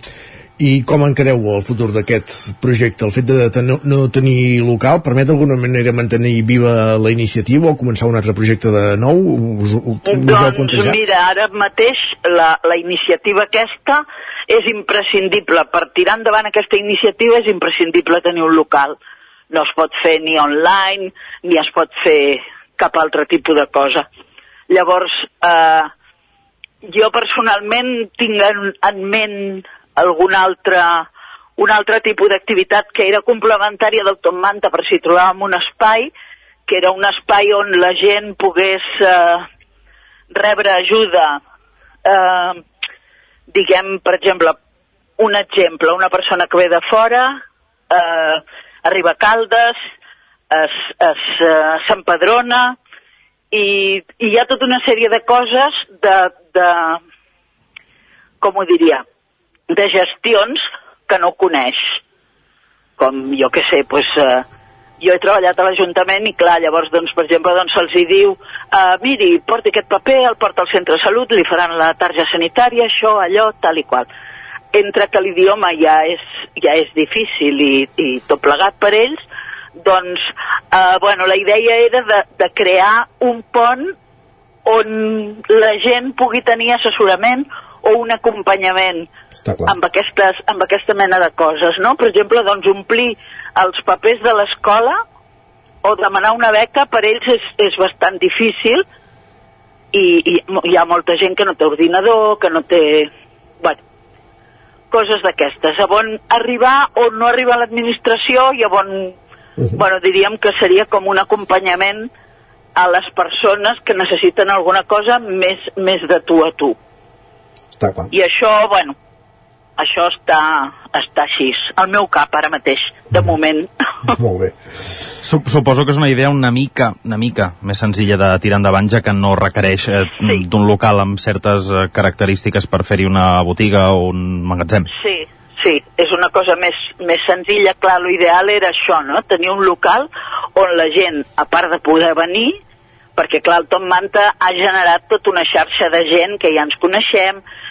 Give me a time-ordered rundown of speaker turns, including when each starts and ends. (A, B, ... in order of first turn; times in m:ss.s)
0:00.6-0:11.0 A
0:10.0-0:19.0 B
0:19.5-0:24.0 B
0:24.7-0:25.9 B
0:26.9-0:31.0 B
0:31.6-0:36.1 B
0:36.7-0:39.4 B
0:40.3-0:41.4 B
0:42.0-0:42.6 B
0:43.5-0:44.6 B
0:45.2-0:47.4 B
0:47.9-0:49.8 B
0:50.5-0:52.8 B
0:53.5-0:57.0 B
0:58.4-0:59.0 B
0:59.7-1:01.8 B
1:03.0-1:04.4 B
1:05.0-1:14.1 B
1:14.7-1:19.2 B
1:19.8-1:20.2 B
1:20.7-1:23.9 B
1:24.6-1:29.1 B
1:29.6-1:35.0 B
1:35.8-1:38.8 B
1:39.9-1:43.1 B
1:44.9-1:49.1 B
1:49.7-1:52.1 B
1:52.8-1:56.8 B
1:57.8-1:58.1 A
1:58.1-1:58.9 B
1:59.8-2:03.7 B
2:04.1-2:04.5 A
2:05.2-2:14.9 C
2:15.0-2:22.6 B
2:23.2-2:27.4 B